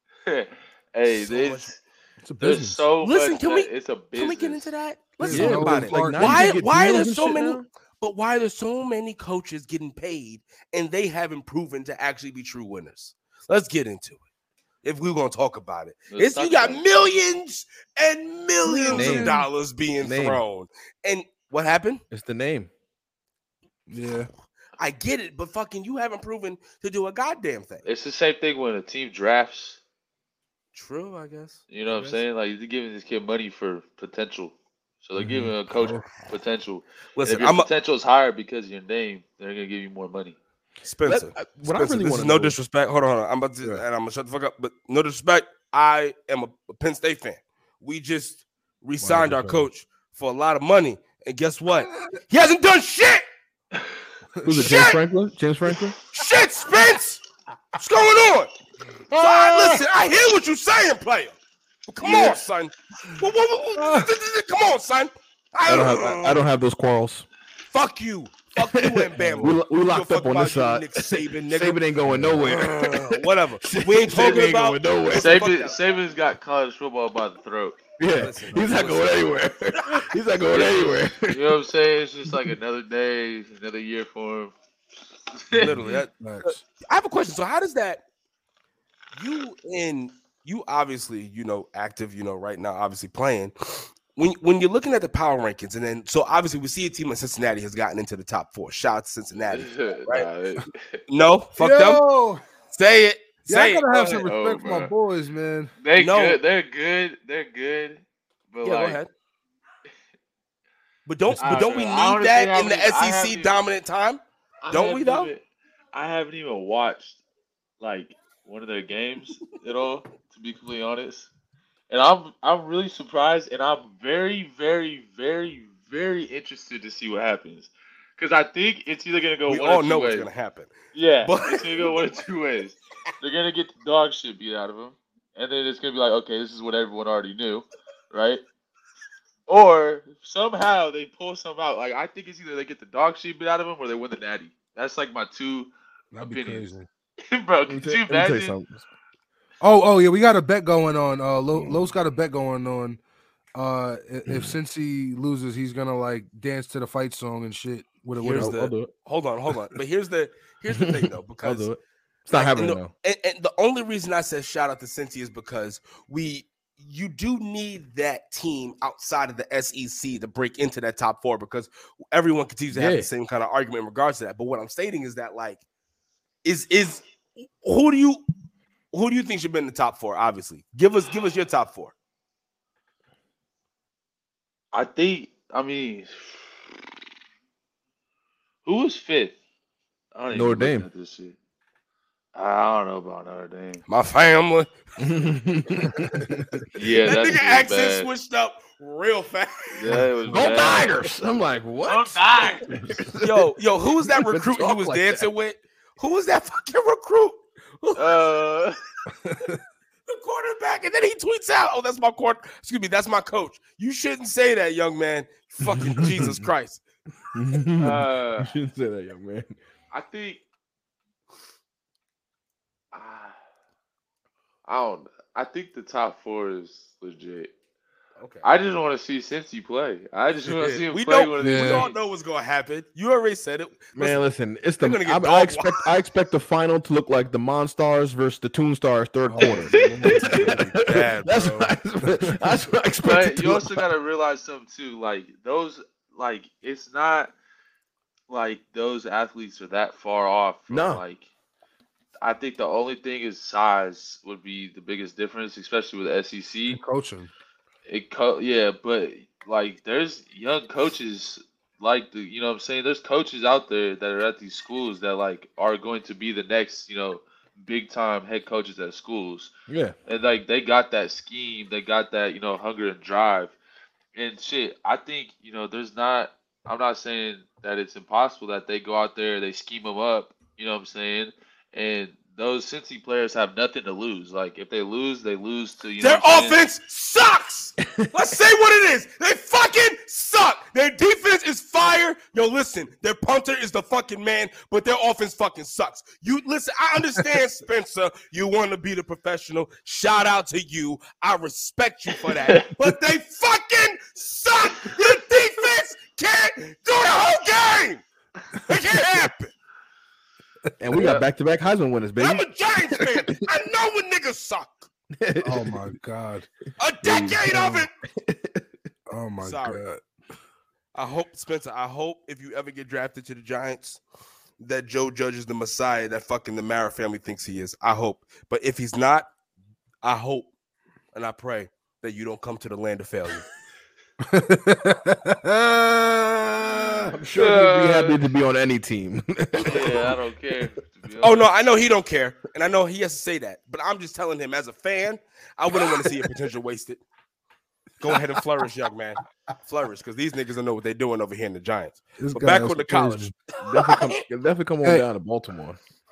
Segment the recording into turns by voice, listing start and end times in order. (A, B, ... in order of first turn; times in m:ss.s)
0:00.2-0:01.8 A
0:01.1-0:01.7 B
0:02.2-0:02.8 C
0:02.4-0:04.7 A
0:03.0-0:14.2 B
0:05.2-0:06.6 C
0:05.2-0:07.6 D
0:14.8-0:22.0 B
0:16.1-0:16.8 A
0:18.6-0:19.4 C
0:18.9-0:19.4 D
0:20.0-0:20.4 D
0:22.1-0:22.7 D
0:23.9-0:24.3 C
0:24.8-0:27.9 B
0:27.8-0:29.8 A
0:30.7-0:31.6 B
0:31.7-0:40.4 A
0:35.8-0:36.0 C
0:37.2-0:37.7 B
0:40.8-0:53.2 B
0:41.0-0:42.6 D
0:49.0-0:49.7 D
0:54.4-0:54.9 C
0:54.4-0:55.9 D
0:54.5-0:55.0 B
0:56.1-0:57.2 B
0:57.8-0:58.5 B
0:59.1-1:06.4 B
0:59.1-0:59.8 C
1:02.0-1:02.4 C
1:03.8-1:04.1 C
1:05.6-1:07.2 D
1:07.7-1:11.9 B
1:08.6-1:15.4 D
1:12.4-1:15.8 B
1:15.1-1:17.8 A
1:18.0-1:21.6 D
1:18.1-1:19.3 B
1:20.5-1:24.5 A
1:25.3-1:25.7 A
1:25.5-1:28.0 B
1:25.6-1:26.6 C
1:29.2-1:40.3 B
1:39.5-1:41.0 A
1:41.1-1:42.0 B
1:41.6-1:42.4 C
1:42.7-1:43.8 B
1:43.4-1:45.7 C
1:43.9-1:44.9 A
1:45.8-1:49.0 A
1:46.0-1:46.4 B
1:48.6-1:49.1 B
1:51.0-1:55.3 B
1:51.4-1:53.6 A
1:54.6-1:55.4 A
1:55.9-1:57.2 A
1:57.8-2:01.3 A
2:01.9-2:10.3 A
2:09.5-2:12.0 B
2:10.9-2:18.4 A
2:19.5-2:26.7 A
2:26.1-2:26.9 C
2:27.3-2:28.6 A
2:27.7-2:28.8 D
2:29.6-2:33.0 C
2:31.5-2:31.9 D
2:33.5-2:38.6 C
2:34.3-2:34.6 D
2:38.2-2:41.7 B
2:38.3-2:38.9 D
2:39.5-2:39.8 D
2:40.9-2:42.9 D
2:42.3-2:55.6 B
2:52.7-2:53.1 D
2:56.4-2:57.0 B
2:57.6-2:58.2 B
2:58.9-3:01.9 B
3:04.7-3:06.7 A
3:08.6-3:09.4 A
3:10.1-3:11.4 A
3:10.3-3:10.9 D
3:12.3-3:13.8 A
3:13.9-3:14.8 B
3:15.0-3:16.6 D
3:16.7-3:18.1 A
3:17.0-3:20.0 B
3:19.8-3:21.0 A
3:19.9-3:23.4 D
3:21.8-3:22.7 A
3:23.2-3:28.3 B
3:24.2-3:25.3 D
3:28.0-3:28.7 A
3:29.2-3:29.6 C
3:30.1-3:36.8 B
3:37.3-3:39.6 D
3:37.8-3:38.5 A
3:39.9-3:40.4 A
3:42.9-3:43.4 A
3:44.6-3:47.5 A
3:48.2-3:48.5 B
3:48.4-3:52.0 A
3:50.5-3:54.2 B
3:51.4-3:51.9 C
3:53.9-4:03.8 D
3:54.8-3:55.9 B
3:59.3-4:00.5 C
3:59.6-3:59.9 A
3:59.7-4:01.7 B
4:03.0-4:07.3 A
4:08.3-4:11.2 A
4:10.7-4:11.0 D
4:12.2-4:16.8 A
4:16.7-4:17.3 C
4:17.9-4:29.5 A
4:29.7-4:29.9 D
4:30.1-4:33.5 A
4:34.1-4:46.6 A
4:46.0-5:08.0 B
5:08.7-5:09.5 B
5:10.8-5:13.3 D
5:11.0-5:11.2 A
5:12.2-5:14.9 B
5:15.2-5:16.0 D
5:15.4-5:16.5 C
5:16.8-5:17.9 B
5:17.0-5:18.7 D
5:19.1-5:20.0 C
5:19.4-5:19.8 B
5:20.9-5:24.0 B
5:24.6-5:29.3 B
5:30.0-5:30.5 B
5:31.1-5:33.4 B
5:34.3-5:37.1 C
5:37.1-5:40.2 D
5:37.3-5:38.2 A
5:39.6-5:41.5 A
5:41.2-5:47.0 B
5:48.0-5:54.2 B
5:52.2-5:53.3 C
5:53.6-5:55.8 D